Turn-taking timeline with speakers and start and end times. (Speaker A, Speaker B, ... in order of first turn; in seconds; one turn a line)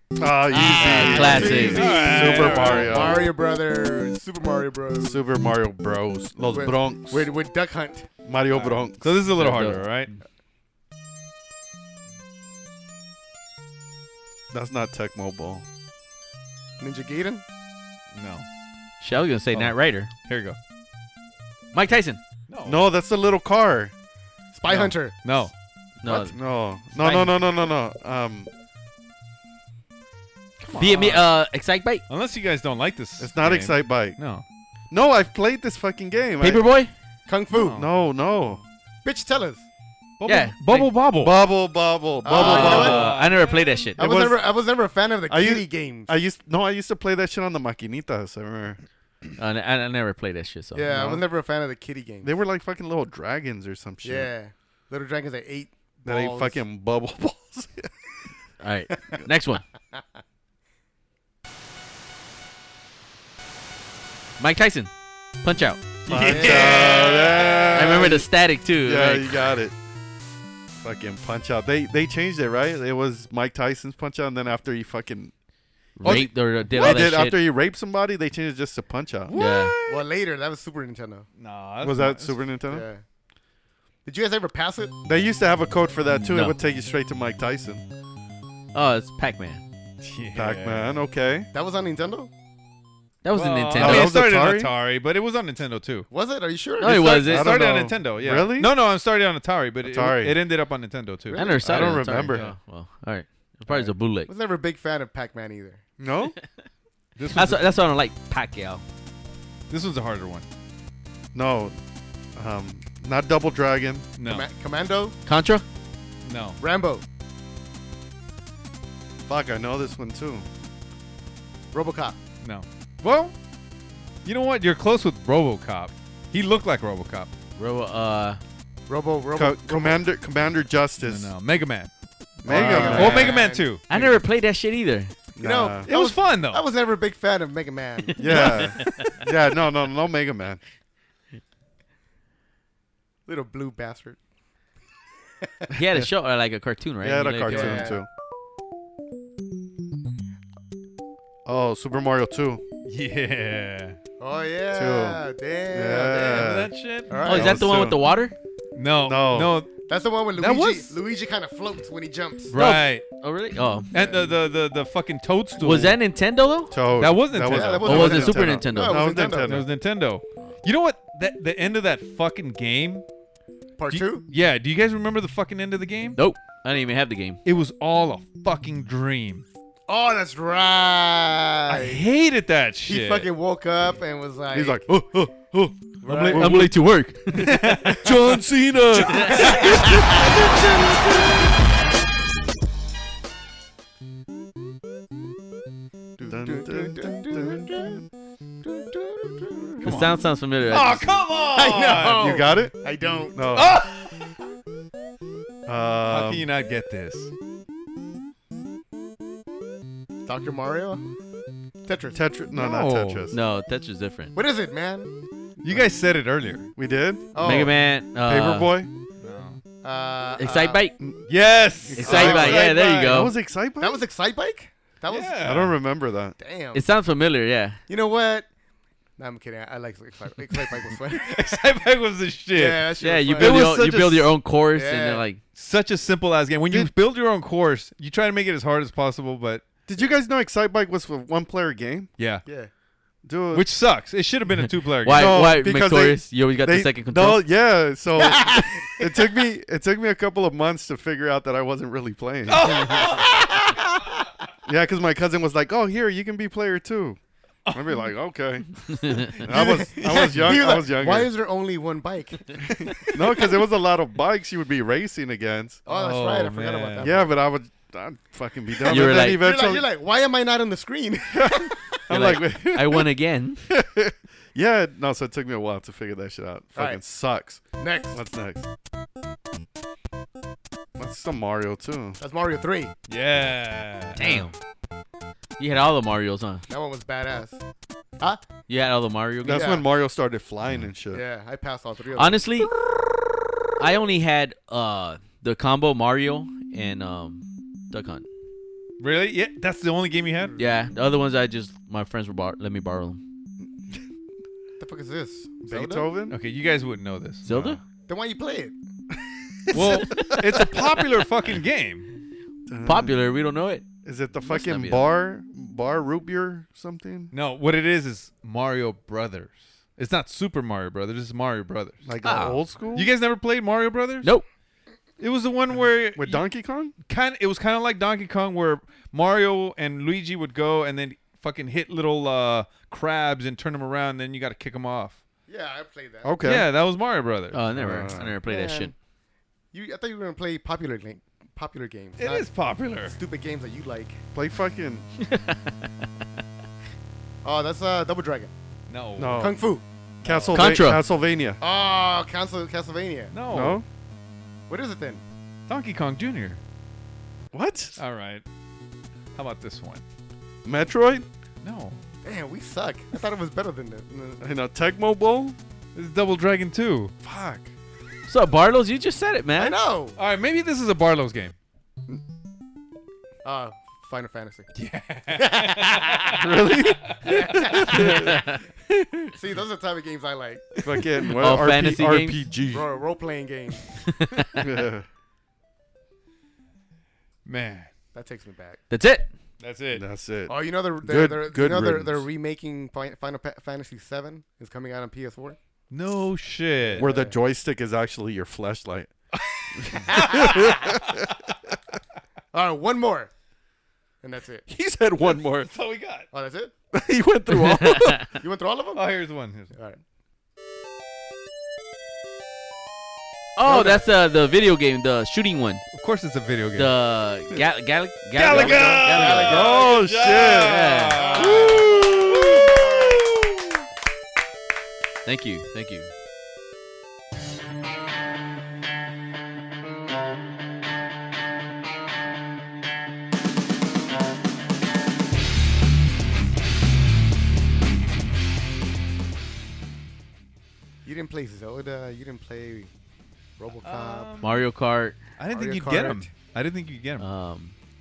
Speaker A: 0.2-3.2
Speaker B: 0.5-1.9
Speaker C: 0.5-5.2
Speaker D: 1.1-3.2
Speaker A: 5.0-7.3
Speaker C: 6.5-8.1
Speaker A: 8.2-9.7
Speaker D: 8.5-10.1
Speaker B: 9.4-9.8
Speaker A: 14.5-15.6
Speaker C: 16.8-17.4
Speaker D: 18.1-18.4
Speaker B: 19.0-20.1
Speaker D: 19.5-20.6
Speaker B: 21.7-22.2
Speaker D: 22.5-22.9
Speaker A: 22.6-23.9
Speaker C: 24.5-25.3
Speaker D: 24.7-25.5
Speaker B: 26.0-26.4
Speaker A: 26.0-28.5
Speaker B: 26.9-27.3
Speaker D: 30.6-31.3
Speaker B: 30.7-32.0
Speaker D: 32.1-34.4
Speaker A: 33.2-34.2
Speaker A: 34.9-36.6
Speaker B: 36.4-36.9
Speaker C: 37.3-37.8
Speaker D: 37.5-37.9
Speaker A: 37.7-38.6
Speaker C: 39.0-39.6
Speaker D: 40.2-41.3
Speaker B: 40.2-40.9
Speaker A: 41.2-43.1
Speaker C: 42.2-43.2
Speaker B: 42.3-44.0
Speaker D: 42.4-43.9
Speaker A: 44.0-44.4
Speaker C: 44.0-46.1
Speaker A: 45.3-48.8
Speaker B: 49.4-50.8
Speaker C: 50.7-52.3
Speaker A: 50.9-51.2
Speaker A: 52.2-54.3
Speaker C: 54.0-56.6
Speaker A: 56.0-57.9
Speaker B: 58.6-59.6
Speaker B: 64.4-64.9
Speaker B: 65.4-66.5
Speaker D: 66.0-68.1
Speaker A: 66.1-68.3
Speaker C: 66.3-67.0
Speaker B: 67.7-69.4
Speaker A: 68.8-69.7
Speaker A: 70.8-75.3
Speaker B: 76.0-77.4
Speaker D: 76.0-76.3
Speaker A: 76.7-79.3
Speaker D: 79.3-80.0
Speaker B: 79.3-79.8
Speaker C: 79.9-81.3
Speaker D: 81.4-82.5
Speaker A: 81.8-82.8
Speaker C: 82.7-83.0
Speaker C: 84.0-84.9
Speaker A: 85.0-87.8
Speaker B: 86.2-86.5
Speaker B: 88.7-89.6
Speaker D: 90.0-91.0
Speaker A: 90.3-91.5
Speaker C: 91.5-92.3
Speaker B: 93.2-94.1
Speaker D: 93.3-96.1
Speaker A: 93.8-94.7
Speaker C: 96.1-97.1
Speaker B: 96.8-97.6
Speaker D: 96.8-102.5
Speaker A: 97.2-98.7
Speaker A: 99.8-100.4
Speaker C: 101.3-101.6
Speaker B: 101.3-104.3
Speaker A: 101.6-102.5
Speaker C: 104.3-105.8
Speaker A: 106.0-106.3
Speaker D: 107.2-107.6
Speaker B: 107.3-108.8
Speaker D: 109.7-110.4
Speaker A: 111.3-111.7
Speaker A: 112.3-114.1
Speaker D: 114.2-114.5
Speaker C: 114.2-115.2
Speaker B: 115.2-115.6
Speaker D: 116.2-116.6
Speaker C: 116.6-117.0
Speaker A: 119.3-120.5
Speaker C: 121.7-122.2
Speaker D: 122.4-123.3
Speaker D: 124.2-127.3
Speaker B: 127.6-128.4
Speaker C: 128.9-130.0
Speaker A: 129.3-131.3
Speaker D: 131.0-131.9
Speaker C: 132.4-134.2
Speaker D: 132.4-133.8
Speaker A: 132.4-133.4
Speaker B: 132.7-133.1
Speaker B: 133.9-135.1
Speaker C: 135.3-138.6
Speaker A: 135.4-135.9
Speaker D: 135.9-136.7
Speaker B: 138.1-139.2
Speaker A: 138.2-140.6
Speaker C: 143.3-144.2
Speaker C: 145.4-145.7
Speaker B: 145.7-147.9
Speaker A: 147.0-148.1
Speaker C: 147.5-148.0
Speaker A: 151.4-152.6
Speaker D: 152.8-154.0
Speaker C: 154.2-156.5
Speaker A: 154.7-156.7
Speaker D: 156.1-157.1
Speaker C: 157.1-157.6
Speaker B: 157.2-158.3
Speaker A: 157.2-158.0
Speaker D: 158.7-159.7
Speaker A: 159.0-159.6
Speaker C: 159.9-162.5
Speaker D: 160.3-160.9
Speaker D: 162.5-163.0
Speaker B: 162.5-163.9
Speaker D: 163.9-166.0
Speaker C: 163.9-164.2
Speaker B: 165.6-166.7
Speaker A: 166.7-169.7
Speaker D: 167.0-168.2
Speaker C: 167.5-169.6
Speaker B: 167.8-169.1
Speaker D: 169.4-173.0
Speaker C: 173.8-174.2
Speaker D: 173.9-176.2
Speaker B: 176.1-177.4
Speaker D: 177.4-179.4
Speaker C: 179.9-182.0
Speaker D: 181.7-183.3
Speaker C: 182.8-184.8
Speaker A: 184.5-186.7
Speaker C: 186.0-186.6
Speaker D: 186.1-186.5
Speaker B: 186.3-187.8
Speaker D: 187.4-188.1
Speaker A: 187.5-191.4
Speaker B: 189.0-189.9
Speaker C: 189.2-191.2
Speaker C: 196.2-198.0
Speaker A: 196.2-198.0
Speaker C: 198.6-199.8
Speaker D: 199.8-200.2
Speaker B: 199.8-201.1
Speaker D: 200.7-202.3
Speaker C: 201.5-203.5
Speaker A: 202.2-202.7
Speaker A: 203.3-203.8
Speaker D: 203.5-204.1
Speaker A: 205.7-206.4
Speaker D: 206.1-207.3
Speaker C: 210.2-211.0
Speaker C: 211.8-212.2
Speaker A: 212.1-213.4
Speaker D: 212.5-213.3
Speaker B: 213.3-214.3
Speaker C: 214.3-215.1
Speaker D: 215.6-216.7
Speaker A: 216.8-217.7
Speaker C: 217.3-217.7
Speaker B: 217.4-218.7
Speaker A: 218.2-218.9
Speaker D: 219.2-219.6
Speaker C: 219.8-220.8
Speaker B: 220.4-220.9
Speaker D: 221.3-223.1
Speaker A: 221.9-224.0
Speaker B: 221.9-223.3
Speaker C: 222.0-222.7
Speaker C: 223.8-225.6
Speaker D: 225.1-225.8
Speaker A: 225.4-226.3
Speaker C: 226.4-226.8
Speaker B: 226.7-227.8
Speaker C: 227.9-228.5
Speaker C: 229.2-231.6
Speaker D: 231.1-234.3
Speaker C: 232.5-233.7
Speaker B: 233.0-235.4
Speaker C: 234.7-235.2
Speaker D: 235.5-239.7
Speaker A: 239.9-242.1
Speaker D: 242.2-242.4
Speaker C: 242.4-242.7
Speaker A: 243.2-243.7
Speaker D: 243.5-245.4
Speaker B: 245.0-247.4
Speaker A: 245.1-252.9
Speaker C: 248.2-249.1
Speaker D: 252.5-253.7
Speaker C: 252.6-254.2
Speaker A: 254.7-257.2
Speaker D: 257.6-258.0
Speaker A: 257.7-261.3
Speaker B: 258.9-259.4
Speaker C: 259.4-263.4
Speaker D: 260.0-260.3
Speaker A: 262.6-265.8
Speaker C: 265.9-267.3
Speaker D: 265.9-267.1
Speaker A: 267.0-269.9
Speaker B: 268.9-269.4
Speaker C: 268.9-272.0
Speaker A: 271.3-273.1
Speaker B: 272.1-273.6
Speaker A: 273.7-278.6
Speaker C: 276.8-277.0
Speaker C: 277.8-278.2
Speaker A: 281.0-282.2
Speaker C: 282.2-282.9
Speaker D: 283.1-284.5
Speaker B: 284.2-284.6
Speaker B: 285.6-286.6
Speaker C: 286.7-287.6
Speaker B: 288.7-289.7
Speaker A: 289.4-291.2
Speaker C: 289.5-289.8
Speaker C: 291.1-292.4
Speaker B: 292.1-292.7
Speaker B: 293.8-298.2
Speaker D: 299.0-300.6
Speaker B: 300.6-303.2
Speaker C: 304.8-306.1
Speaker A: 305.6-306.4
Speaker D: 306.3-307.7
Speaker B: 307.4-307.8
Speaker C: 308.1-308.7
Speaker A: 309.7-310.7
Speaker D: 309.7-312.1
Speaker A: 312.7-313.2
Speaker B: 312.8-313.8
Speaker A: 314.0-317.3
Speaker B: 314.4-315.1
Speaker D: 317.3-322.0
Speaker A: 322.0-323.1
Speaker B: 322.2-322.6
Speaker D: 322.9-324.3
Speaker D: 325.2-326.4
Speaker A: 326.1-326.9
Speaker D: 327.1-335.2
Speaker C: 335.5-336.3
Speaker A: 336.2-336.7
Speaker D: 336.4-337.6
Speaker B: 337.5-338.9
Speaker A: 337.8-338.4
Speaker C: 338.4-338.9
Speaker C: 339.7-342.5
Speaker D: 342.2-343.1
Speaker C: 343.1-344.2
Speaker A: 344.3-345.1
Speaker B: 345.2-345.7
Speaker C: 347.4-348.5
Speaker D: 348.9-349.5
Speaker A: 349.2-349.6
Speaker C: 349.4-349.8
Speaker D: 350.2-350.7
Speaker A: 350.2-351.6
Speaker B: 350.5-351.0
Speaker C: 351.6-353.3
Speaker D: 353.3-353.8
Speaker A: 353.5-353.9
Speaker C: 354.7-355.2
Speaker D: 355.7-356.6
Speaker A: 357.5-358.0
Speaker D: 358.0-358.4
Speaker D: 359.3-360.0
Speaker A: 360.6-361.2
Speaker D: 361.6-362.0
Speaker C: 362.2-364.4
Speaker A: 364.4-365.6
Speaker D: 365.9-367.1
Speaker A: 367.2-367.7
Speaker B: 368.3-369.8
Speaker C: 369.6-370.2
Speaker D: 370.1-371.5
Speaker C: 373.4-374.7
Speaker D: 374.7-378.0
Speaker C: 375.3-376.4
Speaker A: 376.3-378.3
Speaker C: 377.2-378.4
Speaker B: 377.8-378.6
Speaker C: 379.3-380.8
Speaker A: 380.8-383.0
Speaker B: 381.3-382.5
Speaker C: 382.7-383.9
Speaker B: 383.9-384.6
Speaker A: 384.6-385.1
Speaker D: 387.4-387.9
Speaker C: 388.1-388.8
Speaker B: 388.9-389.3
Speaker D: 389.6-390.0
Speaker A: 389.9-392.3
Speaker C: 390.5-395.6
Speaker D: 395.9-397.1
Speaker C: 396.8-397.4
Speaker A: 396.9-399.1
Speaker D: 399.5-401.3
Speaker C: 400.1-400.7
Speaker A: 400.1-401.3
Speaker C: 402.5-403.3
Speaker C: 404.2-404.6
Speaker A: 404.7-405.7
Speaker D: 405.4-406.3
Speaker C: 406.3-406.7
Speaker A: 406.9-408.3
Speaker B: 407.5-408.3
Speaker C: 408.4-409.1
Speaker D: 408.9-409.7
Speaker C: 409.7-410.0
Speaker B: 413.6-415.8
Speaker C: 413.6-414.0
Speaker D: 415.9-416.9
Speaker B: 416.8-419.6
Speaker D: 418.4-423.4
Speaker C: 418.5-419.9
Speaker A: 419.2-423.0
Speaker B: 420.4-421.3
Speaker C: 421.1-422.0
Speaker B: 425.2-426.1
Speaker C: 441.0-442.9
Speaker C: 443.6-444.3
Speaker D: 443.8-444.6
Speaker B: 444.4-445.2
Speaker D: 445.4-447.2
Speaker C: 445.5-446.3
Speaker B: 447.2-447.7